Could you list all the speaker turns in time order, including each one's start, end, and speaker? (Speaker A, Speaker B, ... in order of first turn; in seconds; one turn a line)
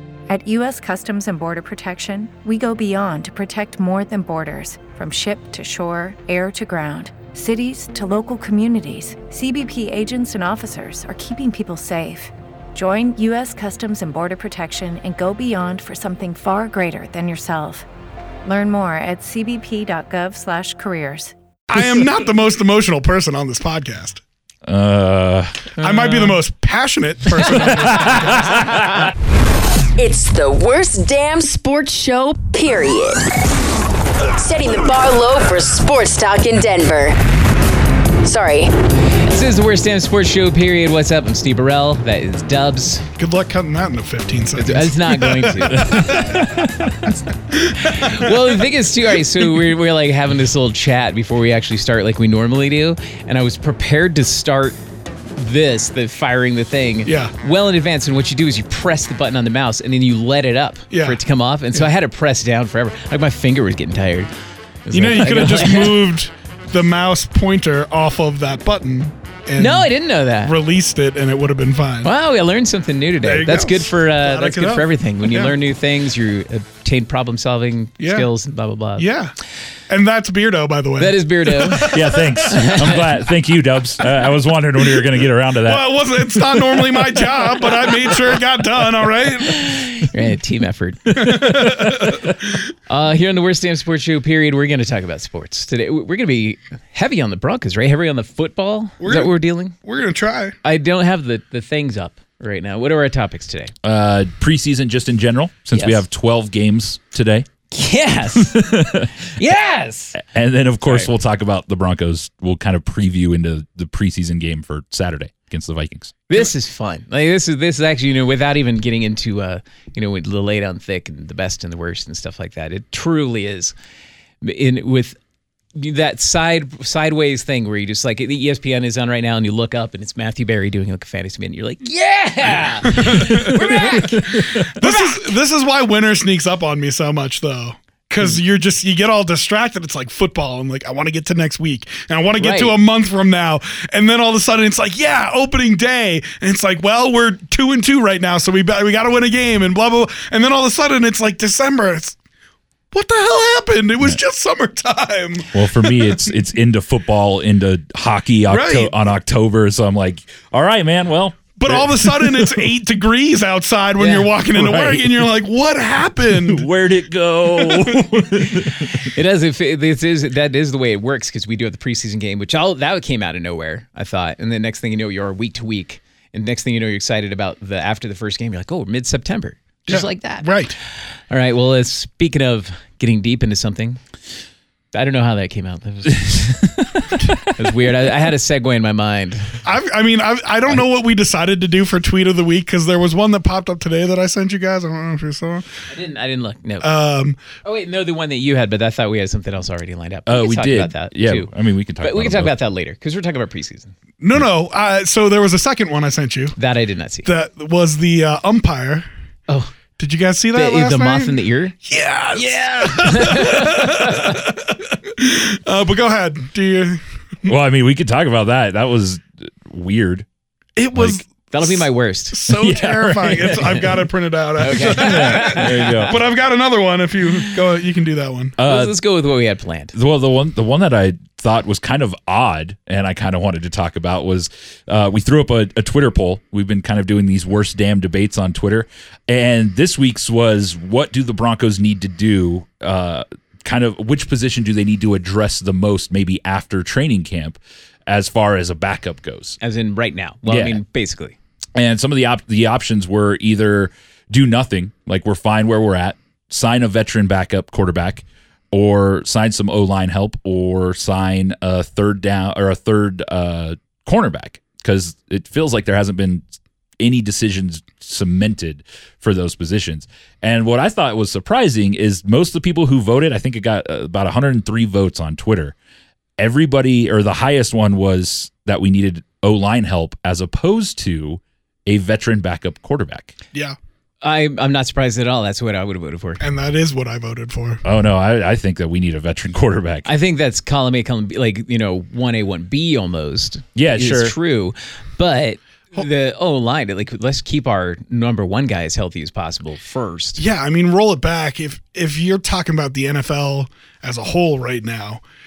Speaker A: 0.3-17.9
Speaker A: 18.4-21.3
Speaker B: 21.7-24.2
Speaker C: 24.6-25.7
Speaker D: 25.8-26.4
Speaker B: 25.8-28.2
Speaker C: 27.4-29.1
Speaker D: 27.6-28.8
Speaker E: 29.9-33.3
Speaker E: 34.3-37.2
Speaker E: 38.2-38.7
Speaker D: 39.1-43.1
Speaker B: 43.2-46.7
Speaker D: 44.5-46.6
Speaker C: 45.8-47.1
Speaker B: 47.5-48.5
Speaker D: 47.8-54.8
Speaker D: 55.3-64.3
Speaker B: 57.0-57.3
Speaker B: 60.9-61.2
Speaker D: 64.8-66.1
Speaker B: 64.9-72.1
Speaker D: 69.6-70.5
Speaker D: 72.0-79.1
Speaker B: 73.2-75.5
Speaker B: 78.0-78.3
Speaker B: 79.0-79.3
Speaker B: 79.9-83.1
Speaker D: 81.0-83.2
Speaker C: 81.9-85.8
Speaker B: 84.8-90.1
Speaker D: 87.7-88.3
Speaker D: 89.4-91.9
Speaker B: 91.1-92.3
Speaker C: 91.2-92.3
Speaker D: 92.9-99.7
Speaker B: 99.0-100.5
Speaker D: 100.6-103.7
Speaker C: 103.8-107.5
Speaker D: 105.7-106.0
Speaker D: 107.7-108.7
Speaker C: 108.4-109.2
Speaker D: 109.2-110.2
Speaker C: 110.2-116.2
Speaker D: 110.8-111.1
Speaker D: 116.3-123.7
Speaker D: 124.4-125.2
Speaker D: 125.7-135.3
Speaker B: 132.8-152.2
Speaker C: 133.7-134.7
Speaker D: 142.4-142.8
Speaker B: 152.9-156.3
Speaker C: 155.5-162.7
Speaker B: 158.5-158.9
Speaker B: 161.6-166.7
Speaker D: 164.0-164.3
Speaker C: 164.5-165.3
Speaker C: 166.4-169.0
Speaker B: 167.6-168.4
Speaker D: 169.0-184.0
Speaker B: 179.9-180.8
Speaker D: 184.9-186.7
Speaker C: 186.2-187.6
Speaker D: 187.5-189.6
Speaker B: 189.6-195.7
Speaker D: 195.9-196.9
Speaker B: 196.8-197.4
Speaker D: 197.6-203.9
Speaker C: 200.3-202.5
Speaker B: 204.2-206.6
Speaker D: 206.6-207.3
Speaker B: 207.2-209.1
Speaker D: 209.5-209.7
Speaker B: 210.0-217.5
Speaker D: 210.5-211.8
Speaker D: 212.3-214.4
Speaker C: 217.4-220.2
Speaker B: 220.8-228.6
Speaker C: 220.9-221.2
Speaker D: 221.5-222.4
Speaker C: 222.5-223.8
Speaker D: 223.5-223.9
Speaker D: 224.6-226.2
Speaker C: 224.7-226.1
Speaker D: 227.3-227.6
Speaker C: 228.6-228.9
Speaker D: 228.6-229.9
Speaker C: 229.9-249.6
Speaker D: 249.6-251.4
Speaker C: 250.5-250.8
Speaker C: 251.8-275.7
Speaker C: 276.4-283.3
Speaker D: 284.2-286.4
Speaker B: 286.4-287.8
Speaker C: 287.8-290.1
Speaker D: 290.0-300.4
Speaker C: 293.8-294.3
Speaker B: 300.4-305.2